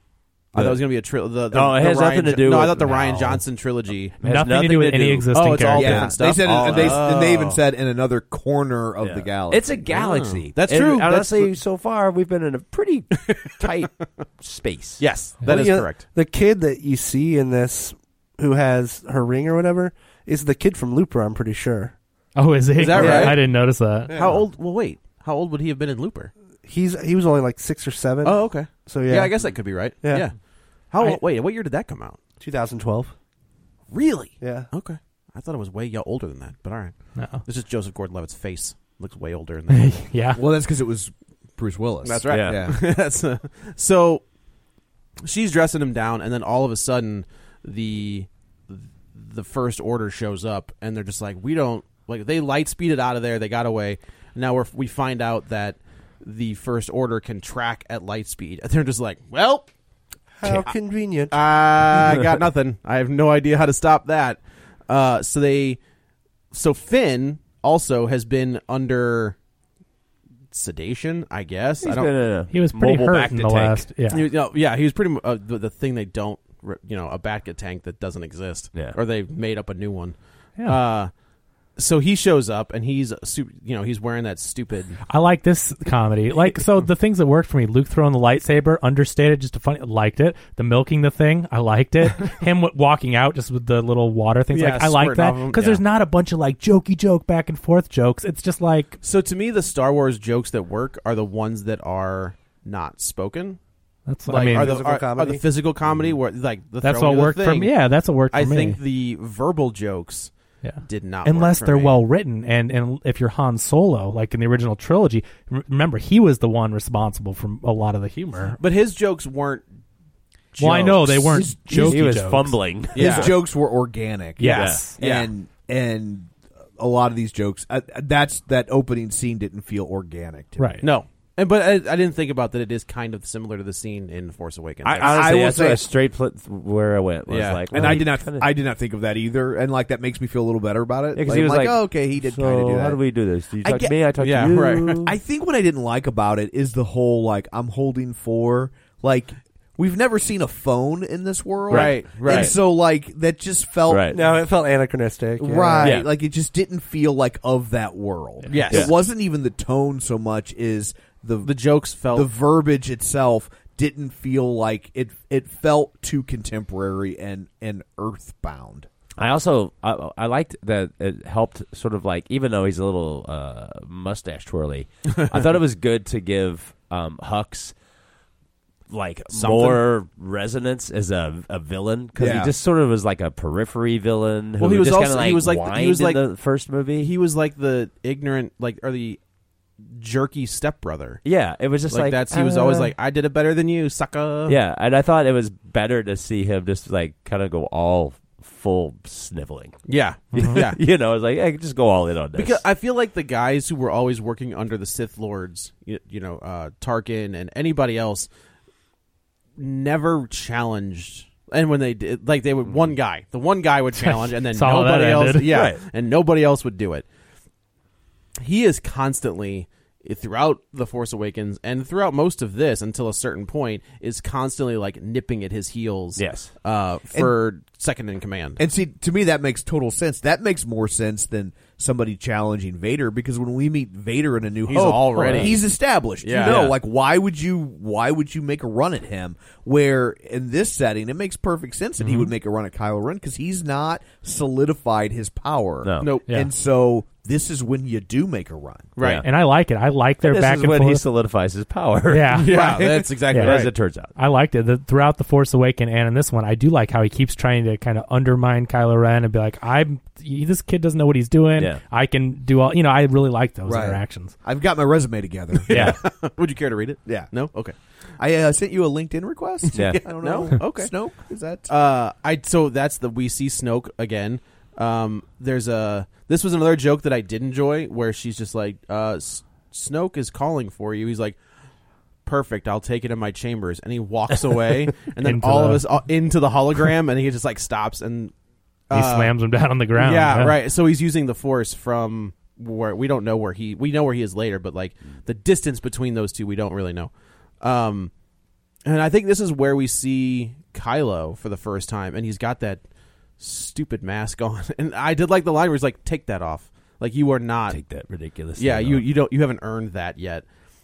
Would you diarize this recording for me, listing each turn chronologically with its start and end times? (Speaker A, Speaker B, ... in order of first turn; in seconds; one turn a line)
Speaker A: 0.5-4.1
Speaker B: 0.5-0.8
Speaker B: 1.5-3.4
Speaker B: 4.2-7.4
Speaker C: 4.2-6.1
Speaker A: 5.3-7.6
Speaker D: 5.8-9.9
Speaker B: 9.0-15.0
Speaker A: 9.9-11.5
Speaker A: 13.2-13.5
Speaker A: 15.0-16.0
Speaker E: 15.4-22.0
Speaker C: 22.4-24.1
Speaker A: 22.8-26.3
Speaker E: 22.9-23.4
Speaker E: 24.1-24.4
Speaker E: 26.6-30.3
Speaker A: 28.2-30.4
Speaker A: 30.9-32.2
Speaker E: 32.4-33.1
Speaker A: 33.9-40.1
Speaker E: 34.4-34.7
Speaker C: 37.1-37.4
Speaker C: 39.7-40.4
Speaker D: 40.3-42.8
Speaker A: 42.0-44.2
Speaker B: 42.3-42.6
Speaker A: 45.2-59.7
Speaker E: 60.4-61.4
Speaker A: 60.4-65.8
Speaker A: 66.5-69.3
Speaker A: 70.5-72.2
Speaker B: 71.8-73.8
Speaker C: 72.5-74.2
Speaker A: 74.1-81.1
Speaker A: 81.8-85.0
Speaker C: 85.1-99.0
Speaker A: 94.5-95.8
Speaker A: 99.0-103.6
Speaker C: 104.0-104.8
Speaker A: 104.2-112.0
Speaker E: 104.3-105.4
Speaker B: 105.9-106.1
Speaker C: 106.8-108.8
Speaker C: 110.6-118.6
Speaker A: 118.6-119.6
Speaker C: 120.6-122.6
Speaker D: 120.8-122.1
Speaker B: 121.0-123.4
Speaker A: 122.9-123.3
Speaker D: 122.9-130.9
Speaker C: 124.4-125.0
Speaker B: 124.5-124.9
Speaker A: 125.0-125.3
Speaker C: 130.6-130.8
Speaker A: 130.8-135.2
Speaker B: 134.8-138.5
Speaker D: 134.9-135.9
Speaker A: 137.3-138.1
Speaker D: 137.7-144.0
Speaker B: 141.1-145.1
Speaker A: 144.2-145.0
Speaker D: 145.0-154.2
Speaker A: 151.7-152.5
Speaker B: 151.7-152.6
Speaker B: 153.9-154.2
Speaker E: 154.1-156.0
Speaker D: 155.4-168.9
Speaker B: 155.8-156.1
Speaker A: 158.5-158.9
Speaker B: 158.5-159.0
Speaker A: 161.4-162.3
Speaker B: 169.2-177.7
Speaker B: 178.9-187.1
Speaker A: 179.3-179.9
Speaker D: 182.2-182.5
Speaker A: 184.6-186.3
Speaker A: 187.0-189.2
Speaker A: 189.9-191.2
Speaker B: 191.2-192.9
Speaker A: 191.9-194.6
Speaker B: 194.5-199.8
Speaker A: 199.9-200.8
Speaker B: 200.3-202.6
Speaker C: 200.3-200.6
Speaker A: 202.3-208.3
Speaker A: 209.6-217.1
Speaker C: 214.0-215.5
Speaker B: 215.5-215.8
Speaker A: 218.4-228.6
Speaker B: 226.2-226.5
Speaker D: 228.6-248.9
Speaker A: 234.7-235.6
Speaker B: 235.1-235.6
Speaker A: 236.2-236.7
Speaker B: 236.4-236.8
Speaker B: 245.8-246.1
Speaker A: 246.0-246.2
Speaker A: 249.0-249.2
Speaker B: 249.0-249.3
Speaker C: 249.2-251.1
Speaker B: 250.2-254.1
Speaker C: 252.1-252.5
Speaker A: 252.4-253.7
Speaker C: 253.3-264.3
Speaker D: 263.6-265.7
Speaker A: 265.5-267.7
Speaker C: 265.7-266.0
Speaker D: 267.1-267.3
Speaker D: 268.2-271.7
Speaker A: 269.6-270.9
Speaker B: 269.7-270.0
Speaker A: 271.7-281.4
Speaker A: 282.2-288.3
Speaker C: 285.2-285.9
Speaker A: 288.9-289.3
Speaker C: 288.9-290.6
Speaker A: 289.9-298.1
Speaker A: 298.8-302.8
Speaker A: 303.4-307.8
Speaker B: 307.7-309.1
Speaker A: 308.6-310.4